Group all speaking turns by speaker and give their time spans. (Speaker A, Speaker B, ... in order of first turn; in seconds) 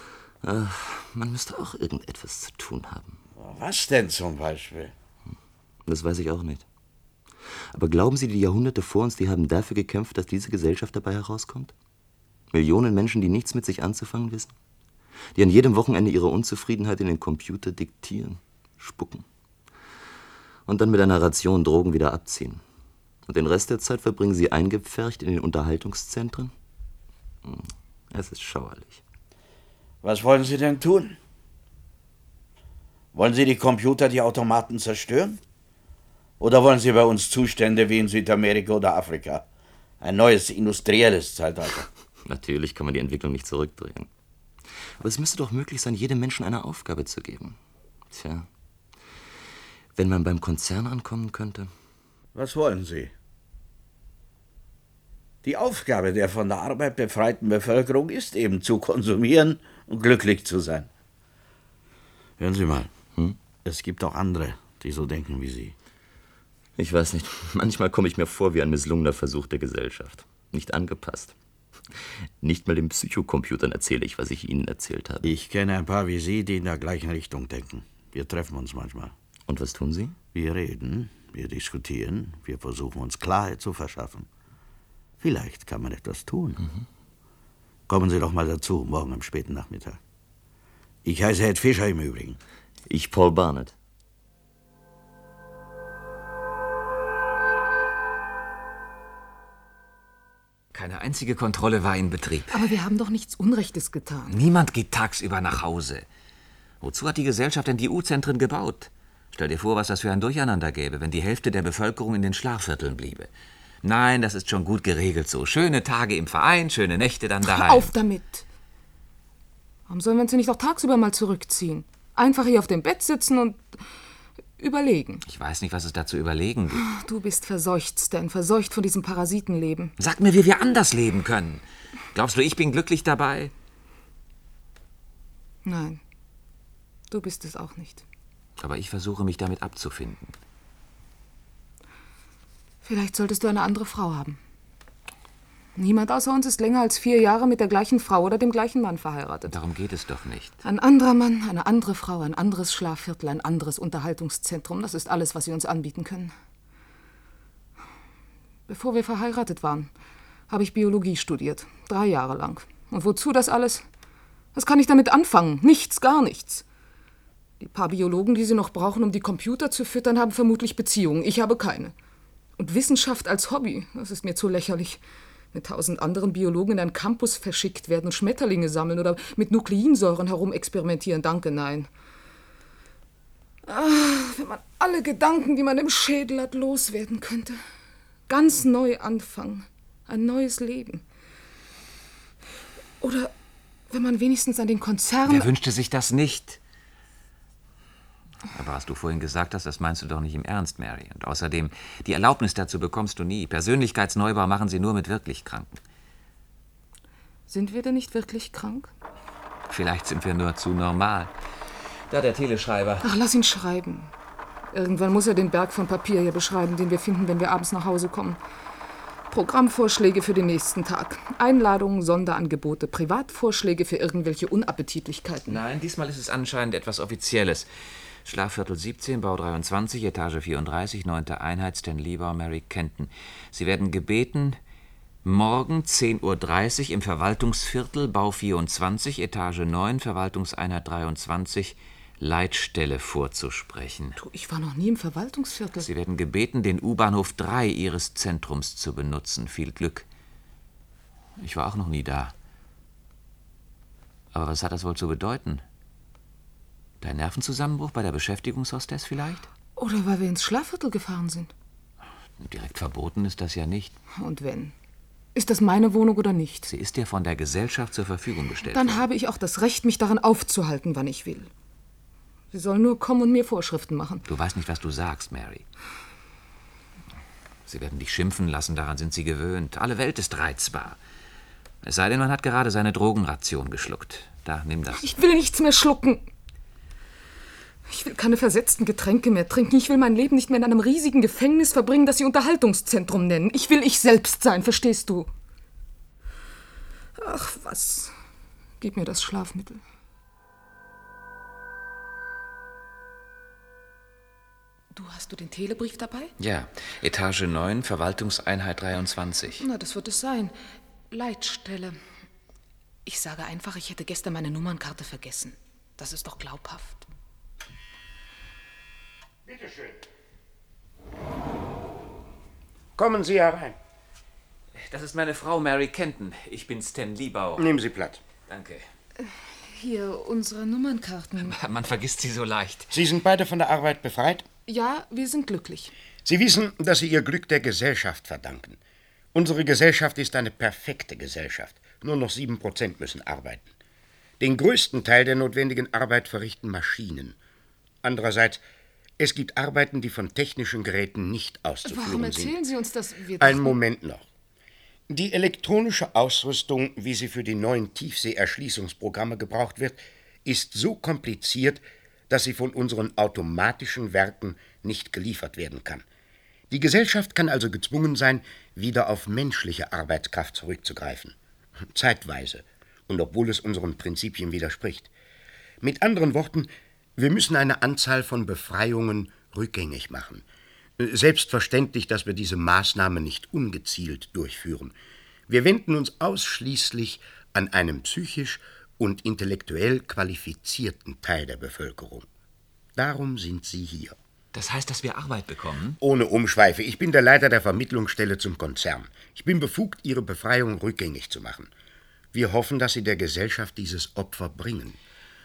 Speaker A: 0.4-3.2, 5.8-6.6, 7.7-11.7, 12.5-14.5, 15.3-19.2, 20.7-22.6, 23.3-26.5, 27.4-29.0, 42.2-44.1, 45.0-47.6, 48.1-48.5, 50.0-51.7, 66.8-71.3, 72.0-75.3, 79.5-80.2, 92.9-93.7
Speaker B: 3.4-4.9, 30.0-31.2, 33.1-35.4, 36.4-39.4, 40.0-41.9, 52.3-53.1, 55.4-60.9, 62.4-62.9, 63.6-65.7, 75.2-79.1, 80.3-84.3, 85.2-86.6, 87.9-90.0, 91.0-92.4
Speaker C: 100.7-102.6, 104.3-106.0, 106.8-113.3, 113.8-117.9, 125.2-126.8, 130.0-133.5, 138.6-140.3, 149.5-150.5, 195.2-196.6, 198.5-205.8, 209.7-211.3, 212.1-213.0, 225.5-227.7, 228.2-234.6, 235.2-244.2, 245.8-250.1, 251.4-252.3, 254.3-255.6, 257.0-259.5, 262.4-263.9, 266.7-269.0, 274.3-275.6, 277.7-281.0, 281.8-285.1, 306.4-309.6, 324.8-327.7, 328.4-328.9, 331.4-332.9, 394.5-396.0
Speaker D: 102.5-104.4, 117.4-118.4, 119.9-123.8, 124.6-125.2, 126.7-129.9, 135.6-136.0, 137.1-138.0, 142.8-144.4, 145.8-149.5, 150.6-156.3, 158.7-159.9, 160.5-163.8, 164.5-166.6, 167.6-171.9, 172.6-175.0, 175.5-181.9, 183.7-187.6, 188.3-191.0, 193.0-193.3, 193.9-195.5, 207.5-208.9, 213.0-214.1, 214.7-218.4, 219.3-225.6, 244.2-245.9, 259.8-261.5, 264.1-264.7, 265.3-266.7, 268.7-271.5, 272.5-274.2, 285.0-286.3, 287.9-295.3, 297.2-298.1, 298.8-299.8, 304.9-306.3, 309.6-310.6, 311.1-312.0, 313.1-317.0, 329.2-331.5, 334.7-335.9, 351.8-353.8
Speaker E: 319.5-320.0, 322.9-323.8, 327.6-328.2, 332.9-334.4, 336.2-338.8, 339.3-343.7, 344.4-347.4, 348.0-348.6, 349.2-352.6, 353.4-354.2, 355.1-366.0, 366.7-371.4, 371.9-375.1, 375.8-380.4, 381.0-384.9, 385.5-392.3, 392.9-394.2, 396.0-401.7, 402.3-405.0